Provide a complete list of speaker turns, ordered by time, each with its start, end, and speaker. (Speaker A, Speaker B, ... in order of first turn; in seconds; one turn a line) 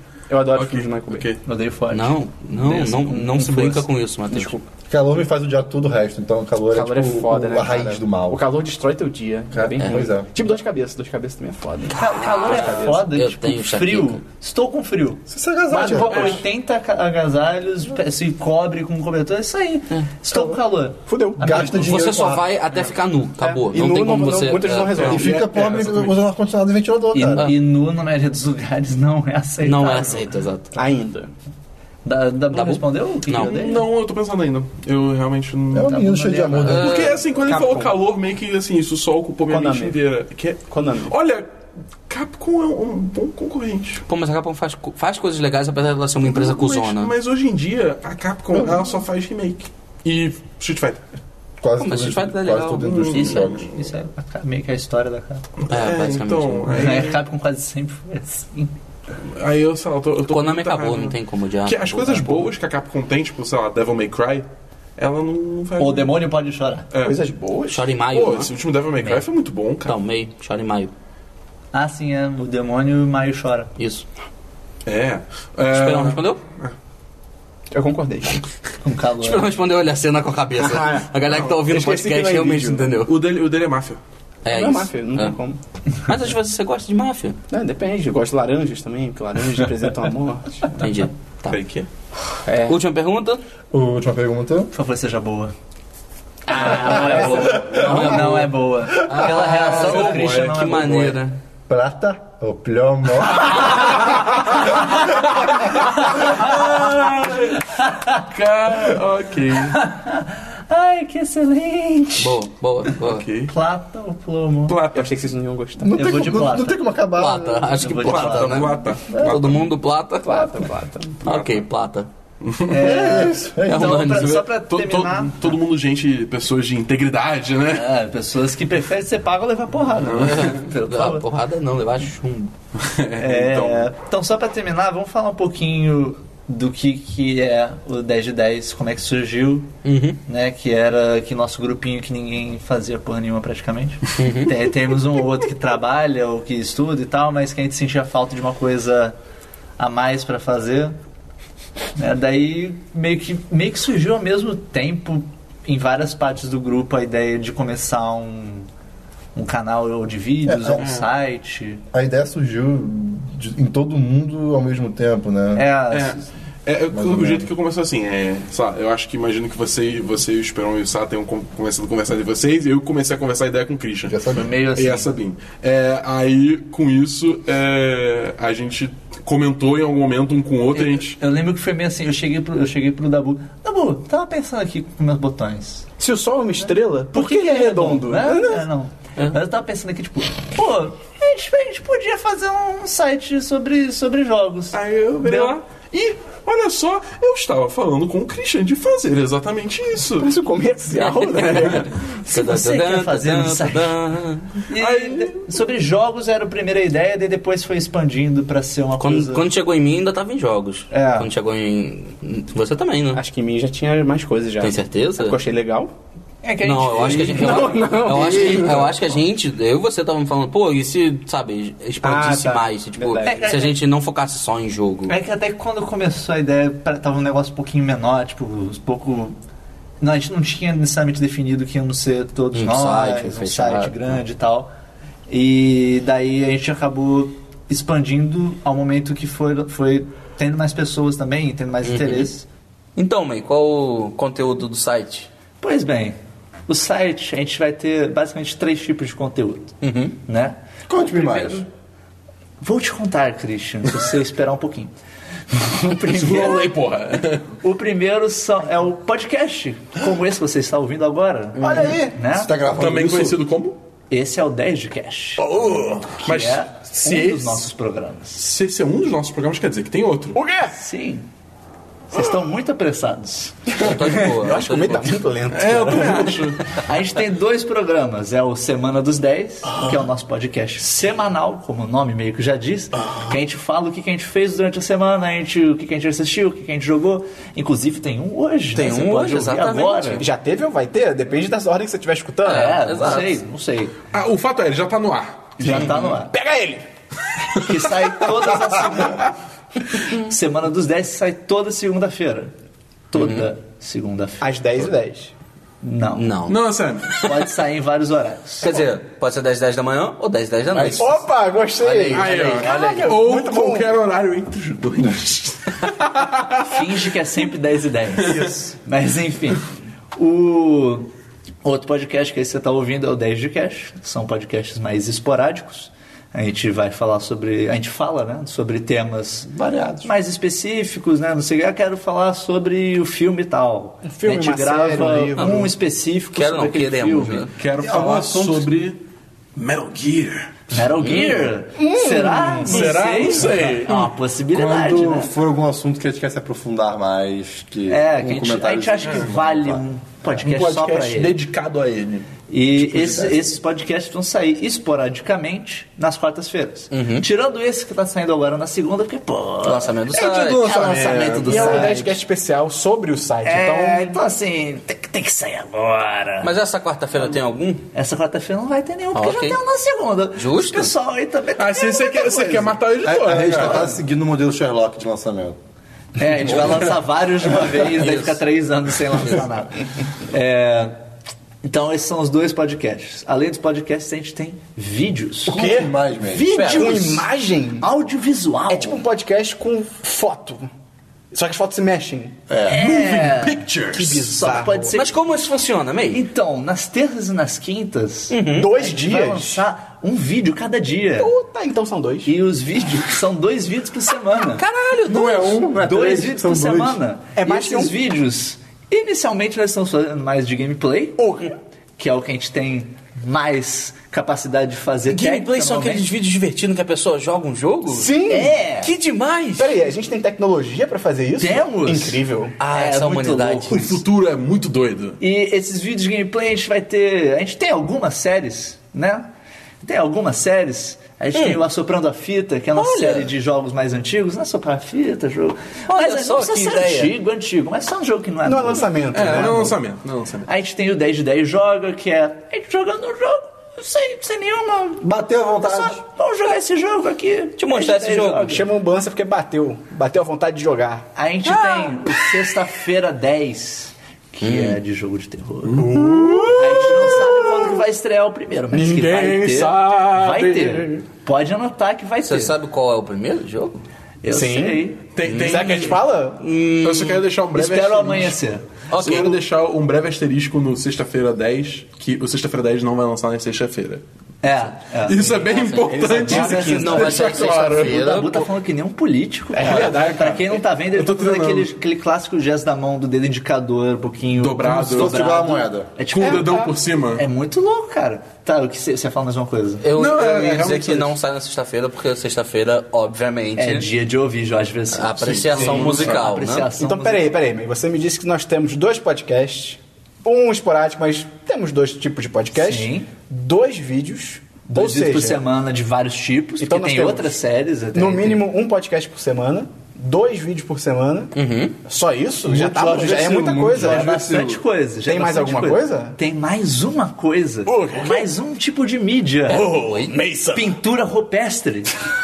Speaker A: 0.3-1.3
Speaker B: 0.5-1.4
Speaker C: 1.4-3.8
Speaker D: 1.9-4.5
Speaker A: 4.3-4.6
Speaker E: 4.9-8.4
Speaker A: 6.7-13.0
Speaker E: 9.5-10.3
Speaker D: 11.9-14.2
Speaker C: 11.9-21.9
Speaker E: 15.3-16.4
Speaker B: 16.0-16.4
Speaker A: 21.1-21.8
Speaker E: 21.4-22.5
Speaker D: 21.7-25.2
Speaker A: 23.4-25.5
Speaker B: 25.0-26.1
Speaker E: 25.1-27.5
Speaker C: 27.1-30.3
Speaker D: 29.6-30.8
Speaker A: 30.7-31.3
Speaker C: 32.0-33.8
Speaker D: 32.5-33.6
Speaker B: 33.4-35.9
Speaker E: 35.7-37.1
Speaker C: 35.8-37.1
Speaker D: 36.6-37.2
Speaker B: 36.6-41.5
Speaker A: 37.4-37.9
Speaker A: 39.5-40.0
Speaker A: 40.7-41.1
Speaker B: 42.1-44.0
Speaker D: 44.1-47.1
Speaker B: 46.2-51.0
Speaker E: 51.6-53.6
Speaker D: 51.8-53.5
Speaker B: 52.8-53.8
Speaker C: 53.1-55.5
Speaker B: 55.6-57.2
Speaker D: 55.7-56.9
Speaker C: 56.7-58.7
Speaker B: 59.2-64.5
Speaker D: 60.3-62.4
Speaker B: 65.0-66.2
Speaker C: 65.8-66.9
Speaker B: 66.9-67.2
Speaker A: 67.0-67.8
Speaker D: 67.7-68.5
Speaker B: 68.1-70.0
Speaker D: 69.8-70.9
Speaker C: 71.7-73.7
Speaker D: 73.8-74.0
Speaker B: 74.8-76.7
Speaker D: 75.7-76.4
Speaker A: 77.7-78.4
Speaker C: 78.8-79.5
Speaker D: 79.2-83.1
Speaker A: 80.6-82.9
Speaker B: 83.0-84.0
Speaker D: 84.4-85.3
Speaker A: 84.5-85.6
Speaker D: 86.0-87.4
Speaker A: 87.5-90.8
Speaker D: 90.8-91.6
Speaker B: 91.5-91.9
Speaker A: 92.4-92.8
Speaker D: 92.6-93.4
Speaker E: 93.7-94.7
Speaker C: 94.7-95.5
Speaker C: 96.5-101.2
Speaker D: 96.7-101.4
Speaker E: 96.8-98.2
Speaker B: 99.5-100.6
Speaker E: 101.7-103.8
Speaker B: 105.1-109.8
Speaker C: 106.1-106.9
Speaker C: 107.9-108.1
Speaker C: 109.7-112.4
Speaker D: 112.2-113.3
Speaker B: 113.0-113.5
Speaker C: 113.5-114.8
Speaker B: 114.7-115.1
Speaker A: 114.9-116.0
Speaker E: 115.8-117.9
Speaker C: 115.9-116.8
Speaker D: 117.1-120.7
Speaker C: 117.8-118.8
Speaker B: 118.0-119.7
Speaker A: 120.2-121.2
Speaker D: 121.2-122.1
Speaker B: 121.2-121.6
Speaker B: 122.4-123.0
Speaker C: 122.7-125.5
Speaker E: 122.8-124.1
Speaker D: 123.7-124.5
Speaker B: 124.1-127.9
Speaker C: 127.7-131.3
Speaker B: 130.0-130.6
Speaker D: 130.3-132.5
Speaker B: 132.8-133.9
Speaker C: 133.2-139.7
Speaker D: 139.8-140.2
Speaker C: 140.2-149.2
Speaker D: 144.2-144.5
Speaker C: 149.8-150.9
Speaker C: 151.9-158.7
Speaker C: 159.3-161.8
Speaker E: 160.4-160.8
Speaker B: 160.8-161.1
Speaker E: 161.9-165.7
Speaker C: 165.5-166.3
Speaker B: 165.9-181.2
Speaker E: 166.9-167.5
Speaker E: 174.1-174.5
Speaker C: 174.3-175.1
Speaker C: 180.7-185.9
Speaker A: 186.0-188.7
Speaker C: 187.1-195.6
Speaker B: 194.7-200.3
Speaker A: 200.2-201.9
Speaker D: 200.9-204.6
Speaker C: 202.1-204.2
Speaker C: 204.7-209.5
Speaker B: 204.7-205.5
Speaker D: 209.0-213.2
Speaker A: 211.0-211.2
Speaker A: 213.1-215.9
Speaker D: 214.6-215.4
Speaker C: 216.4-217.9
Speaker D: 216.6-225.1
Speaker A: 217.2-218.9
Speaker A: 222.0-223.6
Speaker C: 223.2-223.7
Speaker C: 225.1-229.4
Speaker C: 230.0-234.7
Speaker D: 232.5-234.2
Speaker C: 235.3-242.4
Speaker D: 241.8-242.3
Speaker D: 242.9-245.3
Speaker C: 245.6-251.7
Speaker D: 249.8-250.2
Speaker E: 250.9-251.6
Speaker C: 252.6-254.9
Speaker C: 255.5-256.7
Speaker B: 255.9-257.5
Speaker C: 257.6-262.5
Speaker A: 261.6-262.1
Speaker E: 262.3-263.4
Speaker B: 262.7-263.8
Speaker C: 264.1-268.4
Speaker B: 265.4-267.6
Speaker B: 268.4-270.4
Speaker A: 270.3-270.7
Speaker C: 270.7-271.3
Speaker C: 272.1-273.6
Speaker A: 273.7-276.5
Speaker D: 273.8-275.2
Speaker B: 275.5-276.8
Speaker C: 276.3-290.2
Speaker D: 288.7-290.3
Speaker A: 290.2-293.2
Speaker D: 292.4-293.4
Speaker C: 292.4-294.0
Speaker B: 294.1-295.9
Speaker C: 295.6-296.3
Speaker A: 295.6-296.8
Speaker B: 297.4-297.7
Speaker C: 297.6-299.3
Speaker C: 300.0-302.5
Speaker C: 303.1-304.5
Speaker D: 303.1-303.5
Speaker A: 304.4-305.3
Speaker C: 305.8-306.4
Speaker D: 306.2-306.6
Speaker B: 306.5-307.4
Speaker C: 307.1-308.7
Speaker D: 308.6-311.2
Speaker E: 310.7-311.0
Speaker A: 310.9-313.9
Speaker D: 311.8-313.1
Speaker B: 312.1-316.8
Speaker C: 316.6-321.1
Speaker B: 318.2-318.6
Speaker C: 321.6-337.5
Speaker E: 329.5-330.1
Speaker A: 334.0-335.7
Speaker D: 335.4-335.7
Speaker D: 336.3-337.5
Speaker B: 337.6-339.0
Speaker E: 337.8-338.7
Speaker B: 339.6-340.8
Speaker C: 340.7-345.3
Speaker D: 340.9-341.4
Speaker A: 341.8-342.9
Speaker B: 342.6-344.1
Speaker E: 344.5-349.8
Speaker C: 347.9-351.4
Speaker B: 350.4-352.4
Speaker C: 352.5-362.1
Speaker E: 352.8-353.5
Speaker D: 356.9-357.2
Speaker D: 359.6-362.0
Speaker B: 360.1-361.8
Speaker A: 360.9-364.2
Speaker C: 363.4-366.5
Speaker D: 366.4-367.8
Speaker C: 367.9-374.0
Speaker D: 369.1-369.6
Speaker D: 370.3-370.9
Speaker B: 371.6-373.9
Speaker E: 373.0-375.6
Speaker C: 376.2-381.0
Speaker D: 377.8-378.4
Speaker C: 381.6-387.2
Speaker A: 385.5-387.9
Speaker E: 385.5-386.5
Speaker D: 386.6-387.1
Speaker C: 387.8-389.0
Speaker A: 388.7-390.7
Speaker A: 391.3-392.3
Speaker E: 392.5-394.1
Speaker C: 392.7-395.1
Speaker B: 392.7-394.1
Speaker A: 394.2-395.0
Speaker D: 394.9-396.2
Speaker C: 396.1-401.3
Speaker D: 398.3-398.7
Speaker A: 398.5-399.6
Speaker A: 401.2-402.3
Speaker C: 402.2-404.6
Speaker D: 404.6-405.6
Speaker E: 405.1-407.0
Speaker C: 405.6-411.4
Speaker A: 407.4-407.9
Speaker A: 411.2-411.5
Speaker C: 412.0-416.1
Speaker D: 415.1-418.1
Speaker A: 417.9-418.5
Speaker C: 418.3-418.9
Speaker D: 418.8-419.8
Speaker A: 419.6-422.5
Speaker C: 421.4-424.0
Speaker D: 422.6-423.9
Speaker B: 423.7-425.2
Speaker C: 425.2-429.3
Speaker C: 429.8-439.6
Speaker D: 431.3-431.6
Speaker D: 432.8-433.3
Speaker D: 435.9-437.1
Speaker A: 438.4-439.8
Speaker B: 439.1-440.5
Speaker C: 440.4-445.1
Speaker E: 445.0-446.0
Speaker C: 445.6-448.7
Speaker D: 447.6-448.6
Speaker A: 448.5-451.1
Speaker C: 451.1-462.5
Speaker D: 451.5-452.4
Speaker D: 454.4-454.8
Speaker B: 455.7-457.8
Speaker A: 455.9-456.6
Speaker A: 458.7-459.0
Speaker B: 458.8-461.0
Speaker D: 462.3-463.8
Speaker C: 464.2-465.0
Speaker A: 464.3-466.4
Speaker B: 465.1-466.0
Speaker D: 465.3-467.2
Speaker B: 466.8-468.4
Speaker C: 467.5-469.2
Speaker D: 468.9-469.4
Speaker B: 468.9-474.0
Speaker C: 474.4-489.9
Speaker B: 475.0-478.0
Speaker A: 475.6-477.4
Speaker D: 476.7-478.5
Speaker A: 479.5-480.0
Speaker B: 479.6-481.7
Speaker B: 484.4-485.2
Speaker E: 484.9-485.9
Speaker B: 486.1-487.2
Speaker A: 486.2-486.7
Speaker D: 489.8-493.9
Speaker B: 489.9-491.1
Speaker C: 493.6-497.3
Speaker D: 494.9-496.7
Speaker B: 495.2-496.2
Speaker A: 496.7-505.4
Speaker C: 502.5-503.1
Speaker C: 504.7-508.5
Speaker A: 506.6-507.4
Speaker A: 507.9-511.3
Speaker D: 511.3-511.8
Speaker A: 511.9-514.1
Speaker E: 512.4-514.6
Speaker C: 513.7-519.7
Speaker A: 515.1-516.1
Speaker A: 517.9-518.2
Speaker B: 519.5-520.6
Speaker D: 519.6-520.1
Speaker C: 520.5-522.0